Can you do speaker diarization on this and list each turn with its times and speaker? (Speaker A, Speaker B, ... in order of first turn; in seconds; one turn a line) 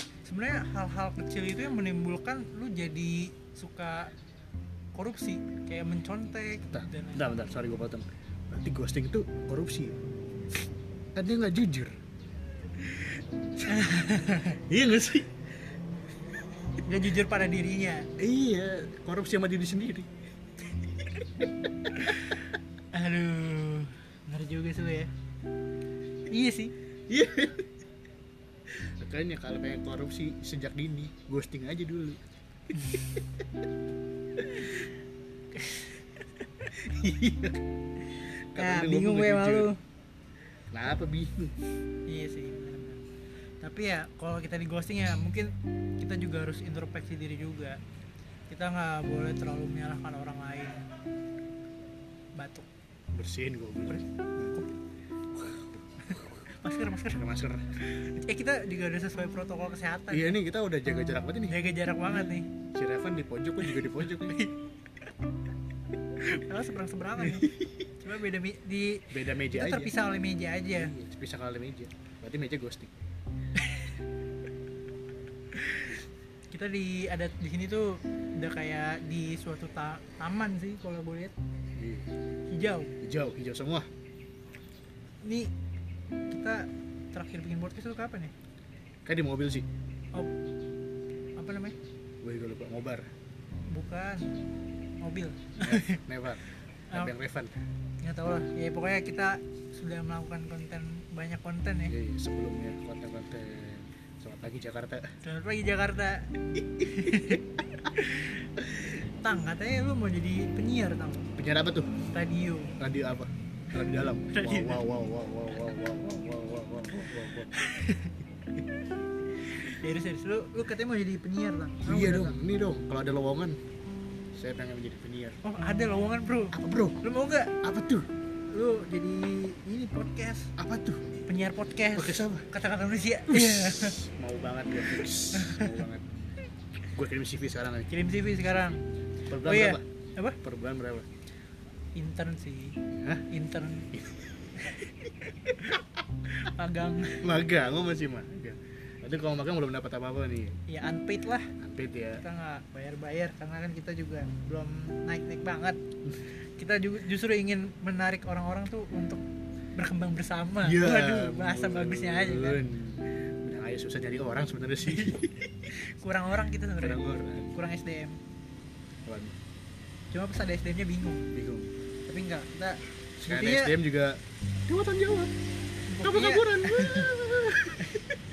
Speaker A: 0.3-4.1
Speaker A: 5.0-7.4
Speaker B: 6.7-10.0
Speaker B: 11.2-12.0
Speaker B: 12.8-13.9
Speaker A: 13.7-14.6
Speaker B: 14.6-15.5
Speaker A: 16.8-18.1
Speaker B: 18.2-20.1
Speaker B: 21.4-21.9
Speaker A: 22.9-25.1
Speaker A: 26.3-26.7
Speaker B: 27.1-27.7
Speaker B: 28.7-32.2
Speaker B: 32.7-33.0
Speaker A: 35.5-36.1
Speaker B: 36.7-37.6
Speaker B: 38.2-39.7
Speaker A: 38.6-39.8
Speaker B: 40.7-41.5
Speaker A: 42.1-43.0
Speaker A: 43.6-47.8
Speaker A: 48.5-50.8
Speaker A: 52.4-52.7
Speaker B: 53.1-54.6
Speaker B: 55.3-56.5
Speaker A: 56.1-57.3
Speaker B: 57.1-57.7
Speaker A: 57.8-60.4
Speaker B: 60.1-61.6
Speaker A: 61.5-62.5
Speaker B: 62.2-64.5
Speaker A: 63.7-64.6
Speaker A: 66.2-70.9
Speaker B: 67.2-67.9
Speaker B: 69.1-70.0
Speaker B: 70.7-72.9
Speaker A: 73.6-73.9
Speaker A: 75.6-76.0
Speaker A: 76.5-81.3
Speaker B: 81.8-82.1
Speaker A: 82.5-82.9
Speaker B: 83.0-83.9
Speaker A: 85.2-85.5
Speaker A: 86.3-88.3
Speaker B: 89.0-89.7
Speaker A: 91.4-91.8
Speaker B: 92.2-93.1
Speaker A: 93.7-94.4
Speaker A: 95.0-96.0
Speaker B: 95.6-97.6
Speaker A: 98.0-102.0
Speaker B: 101.9-105.2
Speaker A: 105.2-111.3
Speaker B: 107.0-107.4
Speaker B: 111.4-111.9
Speaker A: 112.1-112.8
Speaker B: 112.8-117.5
Speaker A: 114.3-114.9
Speaker A: 117.5-118.2
Speaker A: 119.4-122.4
Speaker B: 121.8-123.6
Speaker B: 124.3-125.4
Speaker A: 125.4-127.5
Speaker B: 126.5-127.0
Speaker B: 127.6-128.1
Speaker A: 128.5-130.5
Speaker B: 130.6-131.1
Speaker A: 131.3-134.0
Speaker B: 131.9-132.5
Speaker B: 133.3-136.1
Speaker A: 135.3-135.8
Speaker B: 136.9-138.7
Speaker A: 137.9-138.8
Speaker B: 139.3-139.8
Speaker A: 139.4-140.4
Speaker B: 140.4-141.1
Speaker A: 142.0-143.9
Speaker B: 142.9-143.3
Speaker B: 143.9-144.2
Speaker A: 144.6-145.8
Speaker A: 146.3-147.3
Speaker B: 147.2-150.6
Speaker A: 150.7-151.5
Speaker B: 151.6-152.2
Speaker A: 152.2-155.8
Speaker A: 156.6-159.2
Speaker A: 159.8-162.6
Speaker B: 160.6-165.5
Speaker A: 164.8-168.2
Speaker B: 166.8-167.6
Speaker B: 169.1-169.4
Speaker A: 170.1-171.3
Speaker B: 171.3-171.7
Speaker A: 172.1-173.8
Speaker B: 173.2-175.3
Speaker A: 175.9-177.1
Speaker B: 176.0-178.0
Speaker A: 177.8-178.2